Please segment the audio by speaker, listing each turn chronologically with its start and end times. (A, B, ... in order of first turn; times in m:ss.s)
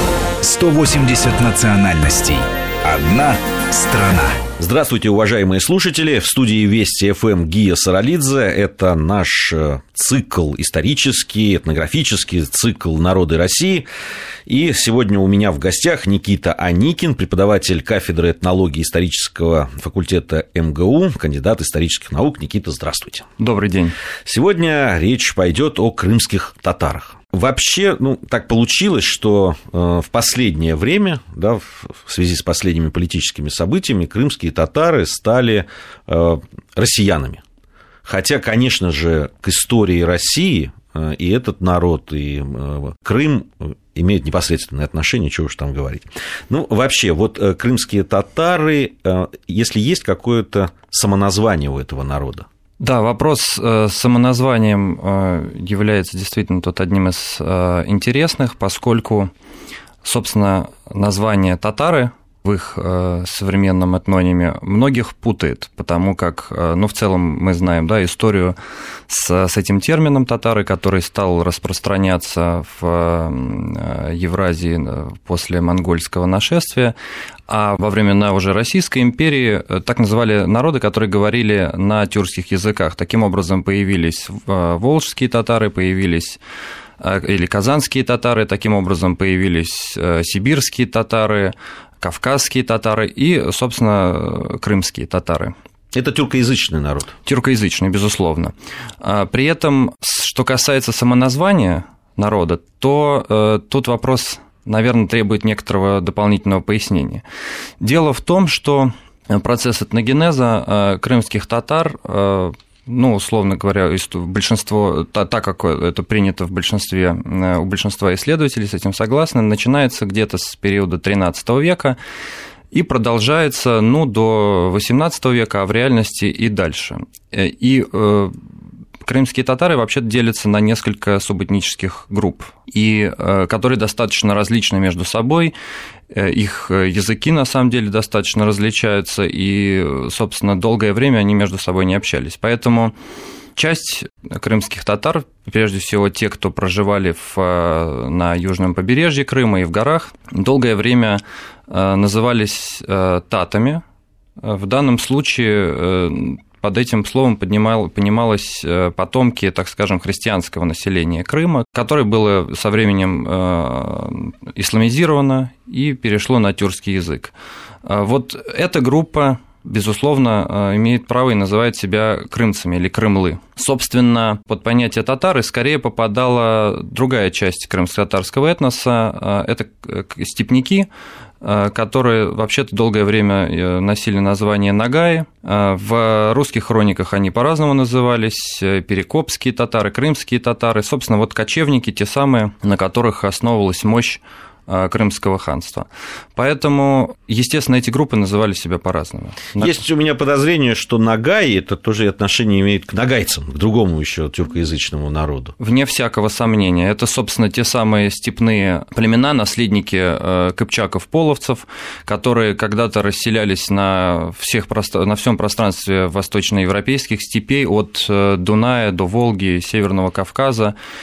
0:00.4-0:04.4 A
0:04.6-0:13.9 B
0:14.5-0:23.3 B
0:23.4-0:24.0 C
0:24.2-0:37.4 B
0:38.0-0:52.5 B
0:52.8-0:59.3 C
1:00.0-1:08.6 C
1:09.1-1:17.0 C
1:17.5-1:26.4 C
1:27.0-1:35.5 C
1:35.9-1:37.1 B
1:37.2-1:47.2 C
1:47.8-2:02.0 C
2:02.7-2:08.4 C
2:09.0-2:15.5 C
2:16.1-2:22.9 C
2:23.6-2:33.8 C
2:34.4-2:47.3 C
2:47.8-3:00.9 C
3:01.4-3:19.8 C
3:19.6-3:25.6 B
3:25.6-3:40.8 C